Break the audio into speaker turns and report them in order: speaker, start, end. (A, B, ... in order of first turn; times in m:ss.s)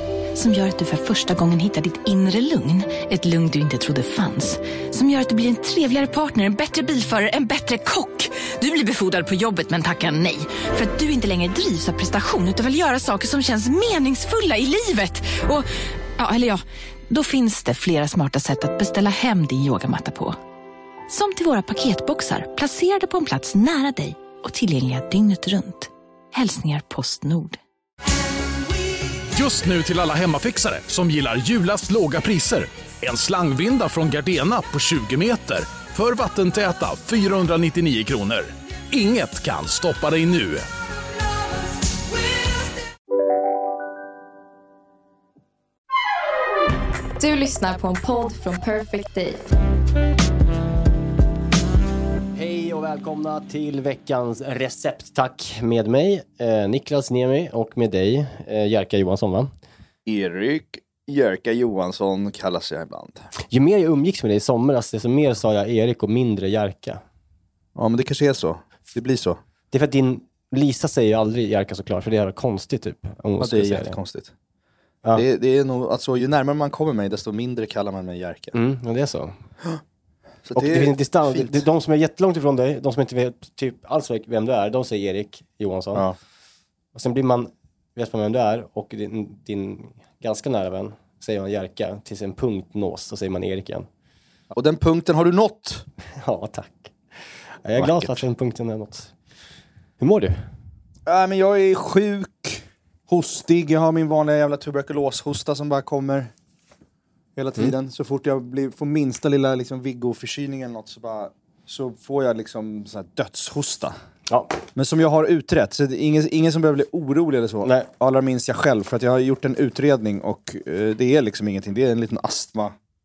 0:00.3-0:15.7 A
0:16.2-0:20.4 A
0:21.1-0:27.6 A
0:29.3-0:40.6 B
0:47.2-0:49.4 C
0:52.3-0:59.5 D
1:00.0-1:03.3 E
1:03.5-1:07.0 D
1:07.8-1:09.4 E
1:09.7-1:14.0 D
1:13.4-1:14.3 E
1:15.1-1:18.5 E
1:18.5-1:19.4 D
1:20.4-1:21.6 E
1:20.5-1:26.0 D
1:26.9-1:33.9 D
1:34.5-1:35.9 E
1:36.2-1:36.9 D
1:37.6-1:39.1 D
1:37.8-1:38.2 E
1:40.0-1:40.4 D
1:41.0-1:46.3 E
1:47.4-1:53.9 E
1:54.7-2:02.7 E
1:57.6-1:57.9 D